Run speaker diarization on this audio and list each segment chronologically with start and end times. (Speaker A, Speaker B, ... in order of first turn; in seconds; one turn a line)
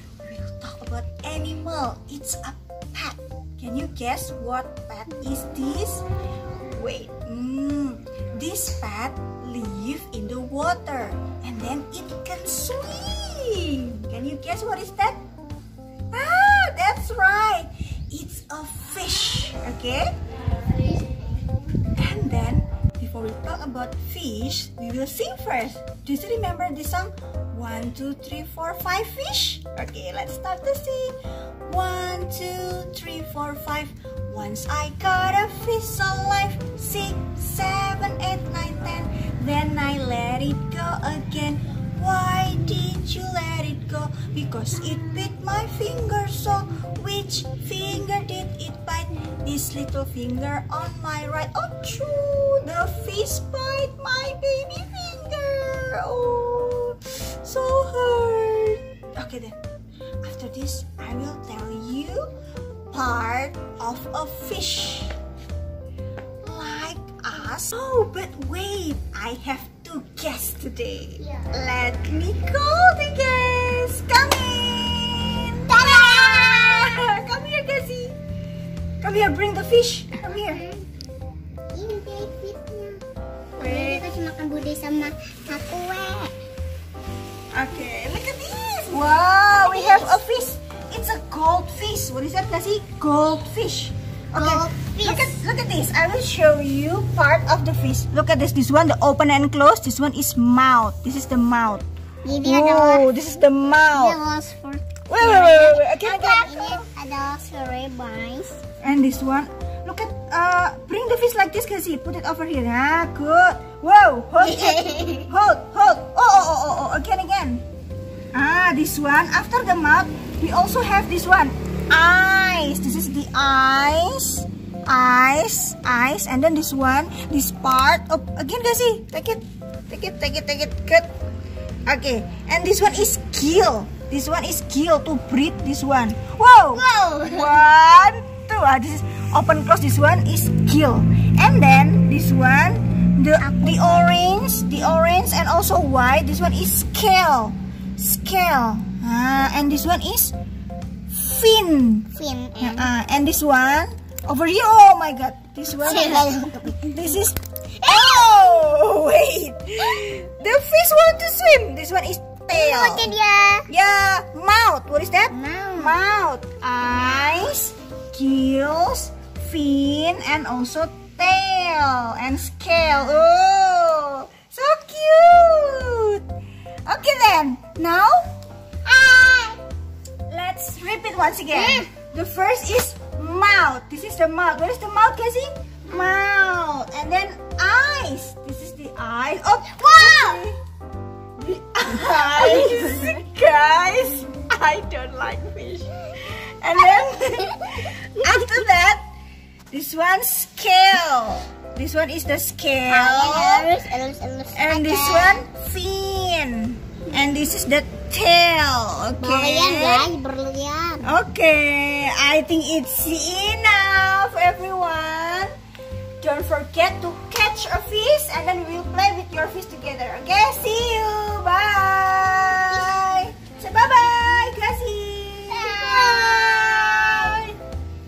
Speaker A: 0.2-6.0
Speaker A: 6.7-15.2
Speaker A: 16.1-20.1
Speaker A: 21.9-59.5
Speaker A: 60.2-62.3
Speaker A: 62.9-65.1
Speaker A: 66.4-78.2
Speaker B: 75.7-76.9
Speaker A: 79.0-80.6
Speaker B: 80.3-80.8
Speaker B: 81.7-83.0
Speaker A: 83.5-84.0
Speaker B: 83.6-86.3
Speaker A: 87.5-101.8
Speaker B: 89.6-90.1
Speaker B: 94.3-95.4
Speaker B: 102.2-103.1
Speaker A: 102.4-104.2
Speaker B: 103.9-108.6
Speaker A: 105.1-106.8
Speaker A: 108.8-117.6
Speaker B: 114.4-115.3
Speaker A: 118.3-131.1
Speaker A: 131.9-150.3
Speaker B: 136.7-137.6
Speaker B: 143.4-144.1
Speaker A: 151.1-152.1
Speaker B: 152.1-152.9
Speaker A: 152.6-163.1
Speaker B: 155.8-156.9
Speaker B: 157.8-158.6
Speaker B: 162.5-163.7
Speaker A: 163.7-176.2
Speaker B: 165.3-165.9
Speaker A: 176.8-178.3
Speaker B: 178.8-179.6
Speaker A: 180.3-190.6
Speaker B: 181.5-181.9
Speaker B: 189.7-190.4
Speaker A: 191.4-199.0
Speaker B: 192.4-192.9
Speaker B: 196.8-198.6
Speaker A: 199.7-203.7
Speaker B: 202.9-205.4
Speaker A: 204.5-210.1
Speaker B: 207.1-207.4
Speaker B: 209.2-211.0
Speaker A: 211.0-215.5
Speaker A: 216.2-227.6
Speaker B: 222.7-223.0
Speaker B: 225.5-227.4